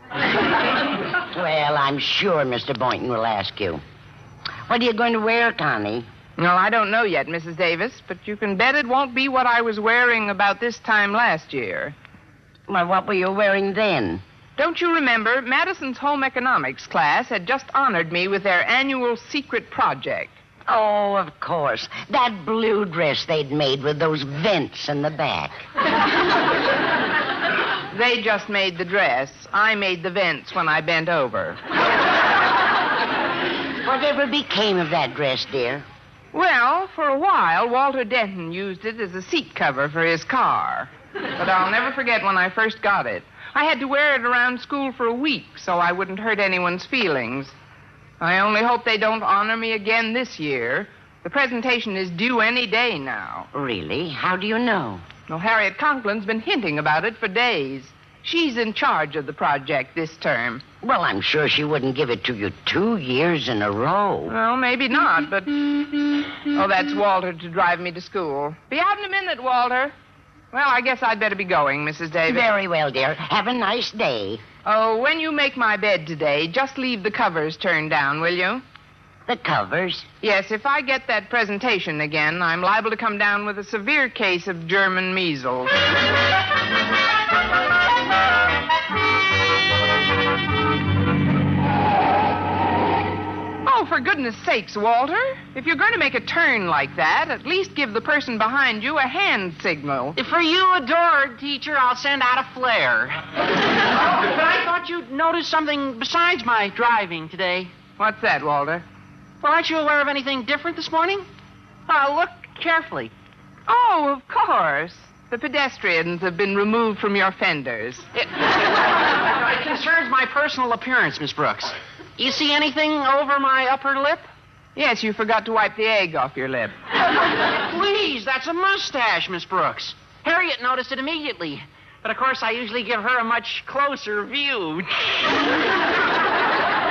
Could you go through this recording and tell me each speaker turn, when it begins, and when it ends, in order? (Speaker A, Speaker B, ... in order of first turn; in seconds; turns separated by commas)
Speaker A: 1.3-3.8, Speaker A: 4.7-6.1, Speaker B: 6.4-11.9, Speaker A: 12.7-14.2, Speaker B: 14.6-20.4, Speaker A: 20.7-25.6, Speaker B: 27.9-31.6, Speaker A: 33.8-35.9, Speaker B: 36.3-47.5, Speaker B: 48.2-53.5, Speaker A: 53.5-55.0, Speaker B: 55.3-60.6, Speaker A: 60.8-64.3, Speaker B: 64.3-69.9, Speaker B: 70.5-72.4, Speaker A: 72.3-74.4, Speaker B: 74.6-78.6, Speaker A: 79.2-80.0, Speaker B: 80.2-85.7, Speaker B: 93.6-100.2, Speaker C: 100.2-103.2, Speaker C: 104.0-107.7, Speaker B: 108.0-108.8, Speaker C: 109.4-111.3, Speaker C: 111.9-113.1, Speaker B: 113.7-118.1, Speaker C: 118.1-124.3, Speaker B: 124.8-126.8, Speaker C: 127.6-135.4